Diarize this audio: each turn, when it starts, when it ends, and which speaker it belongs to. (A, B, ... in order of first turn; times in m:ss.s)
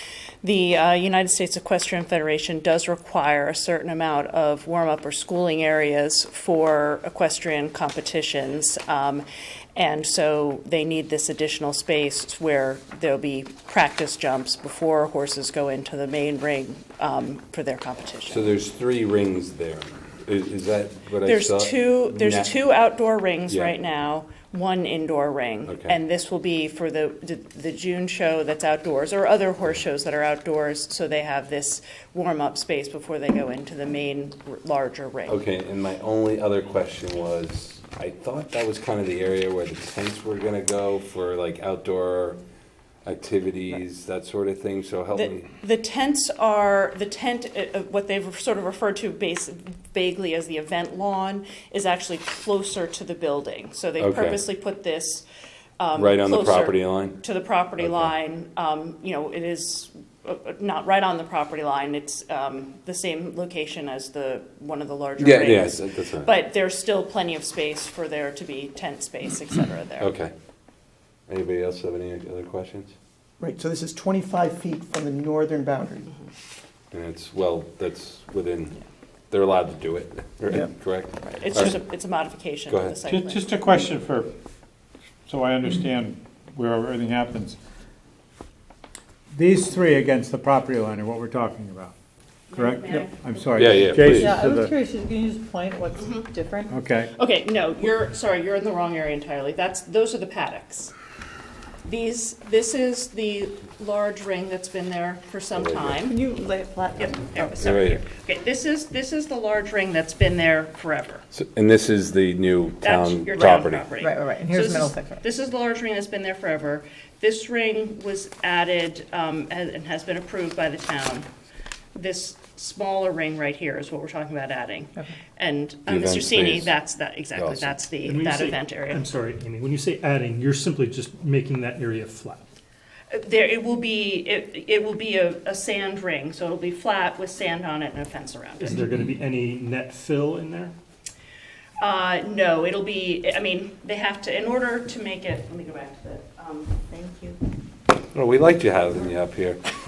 0:00.4-0:18.5 A
0:18.3-0:22.5 B
0:21.2-0:35.4 A
0:25.7-0:26.0 B
0:35.3-0:42.4 B
0:43.0-0:45.5 B
0:45.2-0:55.2 A
0:54.0-0:54.4 B
0:55.8-1:10.1 A
0:56.0-0:57.2 B
0:57.8-0:58.1 B
1:05.2-1:06.3 B
1:10.0-1:10.3 B
1:11.3-1:12.9 B
1:13.4-1:16.1 C
1:16.9-1:18.8 B
1:19.3-1:21.8 B
1:21.3-1:23.7 A
1:22.7-1:23.0 B
1:23.0-1:24.3 D
1:25.3-1:27.6 D
1:29.3-1:32.0 D
1:32.5-1:34.0 A
1:32.5-1:34.8 D
1:33.6-1:34.4 B
1:34.1-1:36.7 E
1:36.0-1:36.3 A
1:36.7-1:37.1 D
1:37.2-1:40.9 A
1:41.8-1:46.2 A
1:45.6-1:46.0 B
1:46.1-1:47.4 E
1:47.0-1:51.2 A
1:47.4-1:48.0 B
1:51.3-1:53.8 B
1:52.8-2:01.3 A
1:54.0-1:55.2 E
2:02.0-2:09.0 A
2:05.9-2:06.7 B
2:07.4-2:07.8 B
2:08.0-2:12.4 F
2:13.1-2:18.8 A
2:18.6-2:20.7 F
2:21.8-2:26.8 A
2:26.9-2:27.4 E
2:28.1-2:29.6 B